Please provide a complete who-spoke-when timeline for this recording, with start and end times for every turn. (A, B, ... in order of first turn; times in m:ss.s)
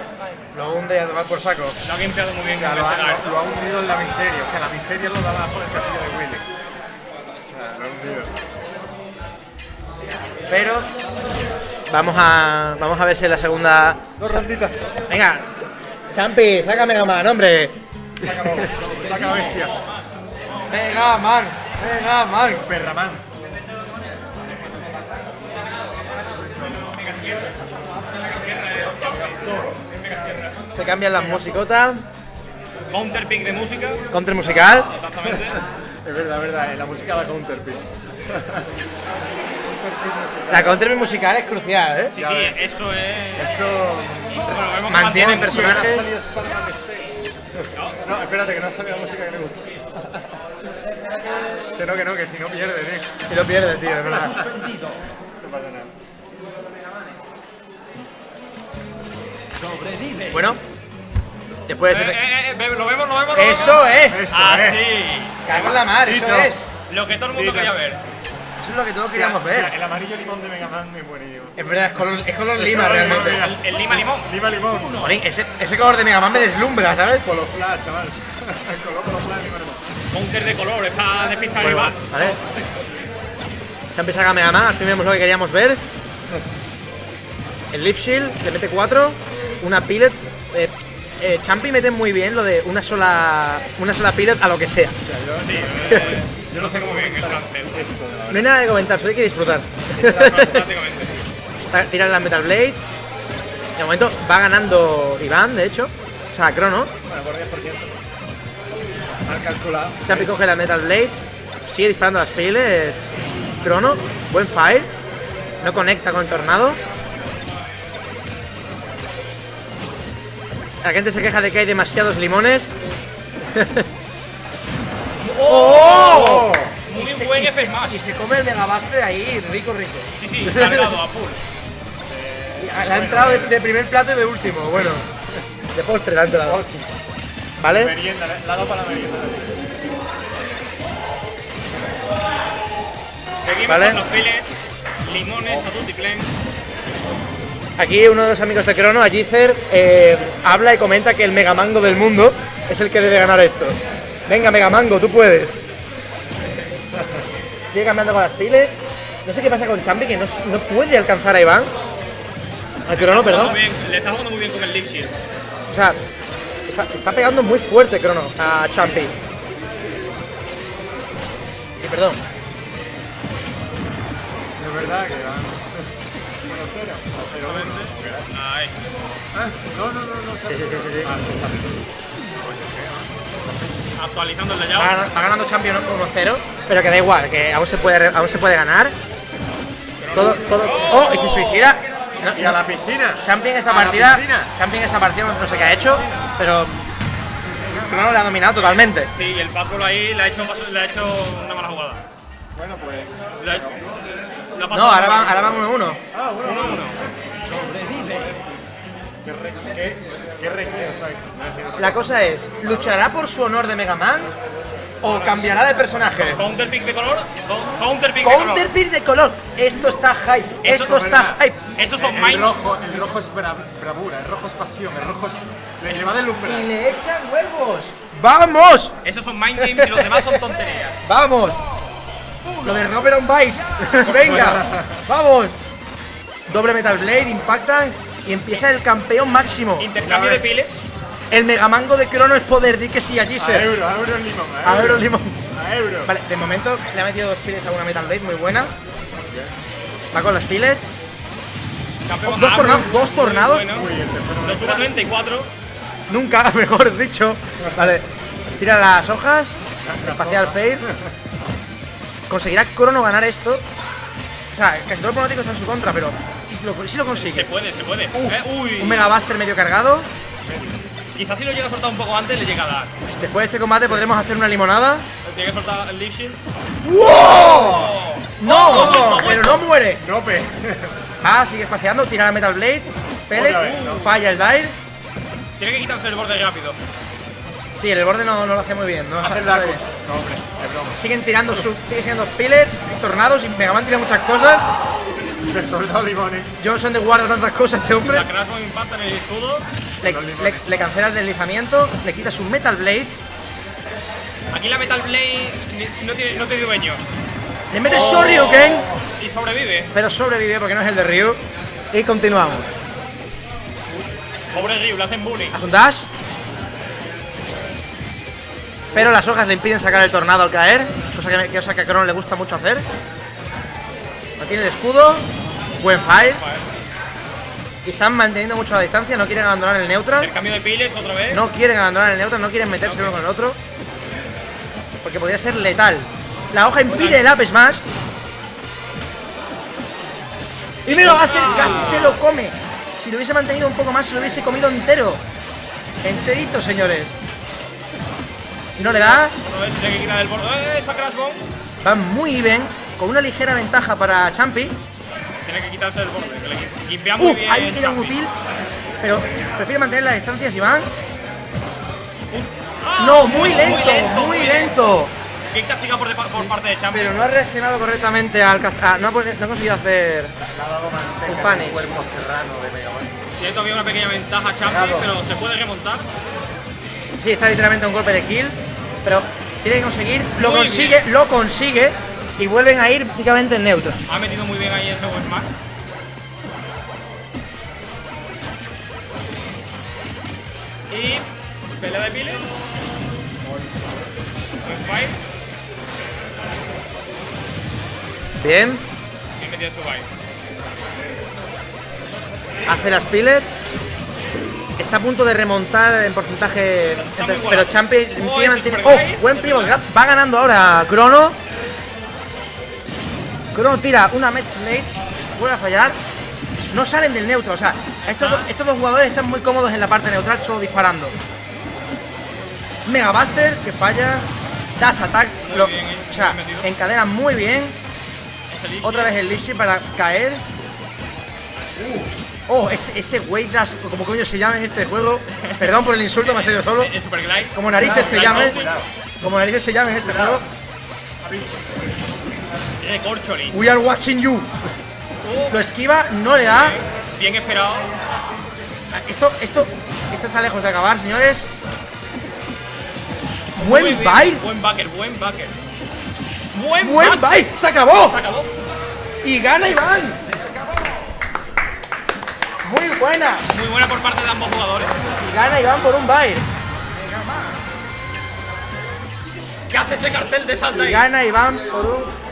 0:00.5-0:01.8 A
0:01.8-0:03.3 B
0:02.5-0:06.5 C
0:07.5-0:08.3 C
0:10.5-0:10.9 A
0:11.9-0:14.5 A
0:14.2-0:15.0 C
0:15.1-0:15.5 A
0:16.1-0:17.7 A
0:18.2-0:19.8 C
0:19.0-0:19.8 B
0:20.7-0:22.7 A
0:22.5-0:23.2 C
0:26.6-0:27.5 B
0:28.0-0:30.6 B
0:30.7-0:32.0 A
0:32.9-0:34.0 B
0:34.1-0:34.9 A
0:34.8-0:35.6 B
0:36.0-0:38.7 C
0:39.8-0:40.8 C
0:40.5-0:42.1 A
0:42.1-0:43.5 B
0:42.2-0:42.6 C
0:43.4-0:47.1 C
0:44.5-0:45.8 B
0:44.9-0:46.1 A
0:47.7-0:48.0 B
0:48.0-0:50.3 C
0:51.7-0:53.1 C
0:53.2-0:54.5 A
0:55.4-0:55.9 C
1:00.3-1:00.6 A
1:01.7-1:02.2 A
1:01.9-1:05.6 B
1:03.3-1:04.3 A
1:04.0-1:04.9 C
1:05.4-1:06.7 A
1:05.5-1:06.6 C
1:06.8-1:08.0 B
1:07.3-1:08.0 C
1:08.6-1:09.7 A
1:09.1-1:11.6 C
1:11.6-1:13.4 A
1:12.6-1:15.0 C
1:13.1-1:15.1 B
1:15.0-1:17.3 A
1:17.2-1:19.8 C
1:20.1-1:22.3 B
1:21.6-1:22.4 A
1:21.6-1:22.4 C
1:23.9-1:25.8 A
1:27.7-1:35.0 A
1:35.0-1:38.5 C
1:35.4-1:37.8 B
1:38.3-1:40.7 A
1:39.9-1:41.1 B
1:41.7-1:42.9 A
1:43.8-1:46.9 A
1:47.1-1:48.0 C
1:49.2-1:50.4 C
1:50.0-1:54.9 A
1:55.6-1:56.8 A
2:00.8-2:02.7 A
2:03.5-2:03.9 A
2:05.2-2:08.0 B
2:05.4-2:10.9 A
2:05.9-2:06.8 C
2:10.1-2:11.4 B
2:12.0-2:13.6 C
2:12.6-2:15.0 A
2:15.7-2:16.6 A
2:16.4-2:16.9 C
2:17.6-2:18.0 A
2:17.6-2:19.7 C
2:23.4-2:26.3 B
2:23.6-2:24.0 A
2:27.8-2:35.6 A
2:37.7-2:41.7 A
2:42.8-2:43.6 A
2:42.9-2:45.1 B
2:45.7-2:46.0 A
2:46.7-2:49.1 A
2:51.8-2:52.2 A
2:54.6-2:55.9 C
2:56.4-2:58.3 C
2:57.3-2:58.8 B
2:59.3-3:03.8 C
3:00.4-3:01.1 A
3:03.9-3:05.2 B
3:04.7-3:08.9 A
3:10.0-3:11.8 B
3:10.1-3:12.6 A
3:12.3-3:14.5 C
3:13.2-3:16.8 A
3:17.7-3:19.1 A
3:18.6-3:22.0 B
3:22.5-3:23.8 C
3:23.4-3:23.7 B
3:24.5-3:25.7 B
3:24.7-3:26.0 A
3:26.1-3:28.6 C
3:26.4-3:27.0 B
3:29.2-3:32.1 C
3:31.8-3:34.3 A
3:32.7-3:33.0 C
3:35.0-3:36.4 A
3:36.1-3:38.7 B
3:38.2-3:41.6 A
3:40.6-3:40.9 B
3:40.7-3:41.4 C
3:41.8-3:42.6 B
3:42.0-3:46.7 C
3:46.4-3:48.9 A
3:49.0-3:51.0 B
3:49.6-3:50.4 A
3:51.0-3:51.6 A
3:52.4-3:52.9 B
3:52.6-3:55.6 A
3:53.9-3:54.5 B
3:54.3-3:55.0 C
3:56.5-3:59.9 A
3:59.8-4:00.8 B
4:00.0-4:00.4 C
4:01.3-4:03.7 A
4:03.4-4:06.1 C
4:04.6-4:05.4 A
4:06.0-4:08.7 A
4:09.3-4:09.5 C
4:10.1-4:11.0 A
4:12.0-4:13.9 B
4:12.2-4:13.7 A
4:13.7-4:15.0 C
4:14.4-4:15.5 B
4:16.1-4:20.8 A
4:19.8-4:21.1 C
4:22.3-4:23.6 A
4:24.5-4:27.5 A
4:27.1-4:29.1 B
4:28.1-4:30.1 A
4:30.4-4:30.8 C
4:31.1-4:32.9 B
4:33.2-4:35.0 A
4:35.2-4:36.4 B
4:36.8-4:40.0 A
4:37.3-4:39.7 B
4:38.7-4:39.3 C
4:40.0-4:41.0 C
4:41.2-4:44.7 A
4:43.3-4:44.1 C
4:45.6-4:46.8 B
4:47.8-4:49.8 A
4:49.2-4:51.0 C
4:50.8-4:54.6 A
4:55.5-4:56.5 C
4:56.6-4:58.3 A
4:58.1-4:59.7 B
5:00.0-5:03.1 A
5:00.0-5:00.8 C
5:04.5-5:07.0 B
5:07.7-5:08.9 A
5:07.8-5:09.9 B
5:07.9-5:09.0 C
5:09.9-5:11.4 A
5:11.9-5:12.7 A
5:14.5-5:15.6 B
5:15.5-5:16.1 A
5:18.9-5:22.8 A
5:24.4-5:26.4 A
5:26.0-5:26.7 B
5:27.8-5:30.3 A
5:30.2-5:31.4 B
5:31.3-5:33.6 A
5:32.8-5:33.2 B
5:35.0-5:37.8 A
5:36.8-5:37.3 B
5:40.8-5:45.2 A
5:40.9-5:42.2 B
5:46.0-5:47.1 A
5:48.8-5:49.3 A
5:48.8-5:51.4 B
5:51.8-5:54.8 A
5:55.4-5:58.2 B
5:57.2-5:58.3 A
5:59.0-6:00.9 A
6:02.3-6:04.7 B
6:03.0-6:05.1 A
6:05.5-6:07.2 B
6:06.9-6:10.3 A
6:10.4-6:13.1 C
6:11.2-6:11.9 A
6:13.4-6:16.1 B
6:14.6-6:15.2 C
6:17.2-6:24.0 A
6:20.4-6:21.0 B
6:24.1-6:25.5 B
6:30.9-6:31.2 B
6:31.8-6:32.6 B
6:34.6-6:35.2 B
6:38.4-6:38.8 A
6:39.4-6:40.1 B
6:42.6-6:43.6 A
6:44.8-6:51.4 A
6:46.9-6:49.8 B
6:53.5-6:56.0 A
6:56.7-7:01.2 A
6:58.0-6:58.5 B
7:02.8-7:07.8 A
7:05.4-7:06.7 B
7:08.5-7:09.2 B
7:08.8-7:10.4 A
7:12.5-7:16.9 A
7:15.4-7:18.8 B
7:17.5-7:18.6 A
7:17.7-7:18.9 C
7:19.2-7:20.4 A
7:21.2-7:21.8 C
7:22.8-7:23.6 B
7:23.5-7:24.5 A
7:25.2-7:25.7 B
7:25.5-7:26.8 A
7:26.3-7:27.9 B
7:28.9-7:31.5 A
7:33.6-7:34.4 A
7:33.6-7:35.5 B
7:36.5-7:38.5 B
7:36.8-7:38.2 A
7:39.2-7:40.2 A
7:42.6-7:43.4 A
7:43.5-7:44.9 B
7:45.2-7:46.4 A
7:49.7-7:51.0 B
7:50.7-7:52.1 A